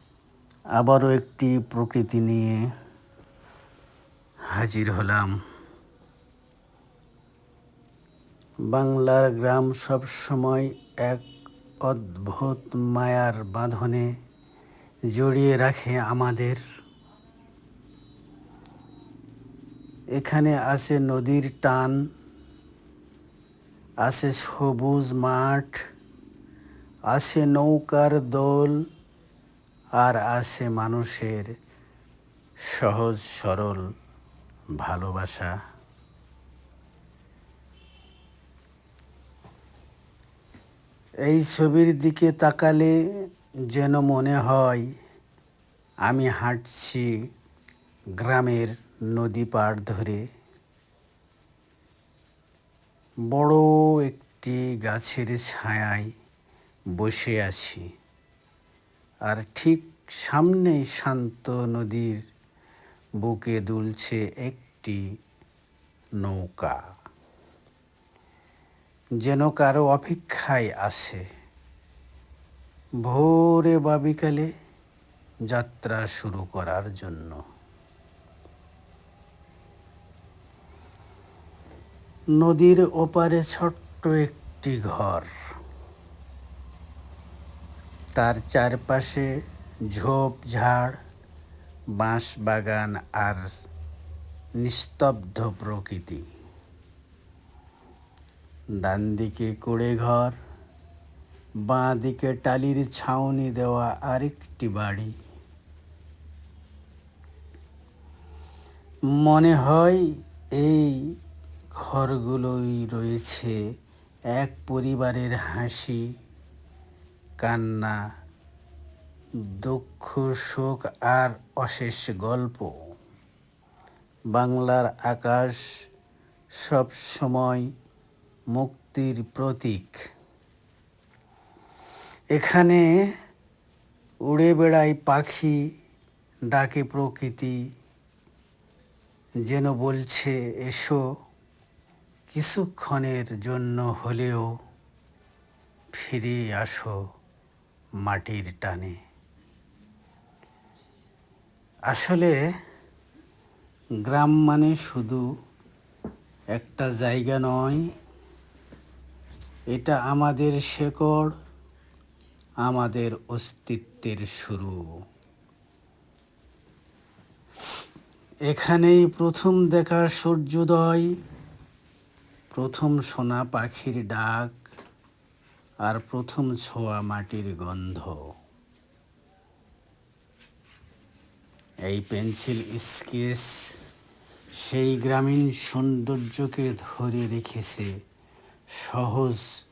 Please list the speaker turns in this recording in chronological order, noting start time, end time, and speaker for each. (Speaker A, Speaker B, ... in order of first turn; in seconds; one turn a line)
Speaker A: 0.8-2.6
Speaker A: 4.5-5.3
Speaker A: 8.7-11.2
Speaker A: 11.8-14.1
Speaker A: 15.1-16.6
Speaker A: 20.1-22.0
Speaker A: 24.0-25.8
Speaker A: 27.1-28.8
Speaker A: 30.0-31.5
Speaker A: 32.7-33.8
Speaker A: 34.8-35.5
Speaker A: 41.3-43.0
Speaker A: 43.7-44.9
Speaker A: 46.0-47.1
Speaker A: 48.2-50.2
Speaker A: 53.3-56.1
Speaker A: 57.0-57.9
Speaker A: 59.3-62.2
Speaker A: 63.2-65.0
Speaker A: 66.2-66.8
Speaker A: 69.2-71.2
Speaker A: 73.0-74.5
Speaker A: 75.5-77.4
Speaker A: 82.4-85.3
Speaker A: 88.2-89.3
Speaker A: 89.9-91.0
Speaker A: 92.0-93.5
Speaker A: 94.6-96.2
Speaker A: 98.8-100.4
Speaker A: 101.7-105.1
Speaker A: 109.1-110.0
Speaker A: 110.6-111.1
Speaker A: 111.8-113.6
Speaker A: 114.3-116.1
Speaker A: 117.4-118.0
Speaker A: 119.6-122.7
Speaker A: 124.3-125.6
Speaker A: 126.6-127.7
Speaker A: 128.5-130.0
Speaker A: 132.3-132.8
Speaker A: 134.3-135.6
Speaker A: 136.5-137.6
Speaker A: 139.5-141.0
Speaker A: 142.3-144.5
Speaker A: 145.9-147.0
Speaker A: 148.0-149.0
Speaker A: 151.9-152.3
Speaker A: 154.0-155.2
Speaker A: 156.5-157.8
Speaker A: 159.7-161.3
Speaker A: 162.6-164.8
Speaker A: 168.5-171.1
Speaker A: 172.5-174.5
Speaker A: 175.8-178.2
Speaker A: 181.9-183.6
Speaker A: 184.6-187.9
Speaker A: 188.8-189.4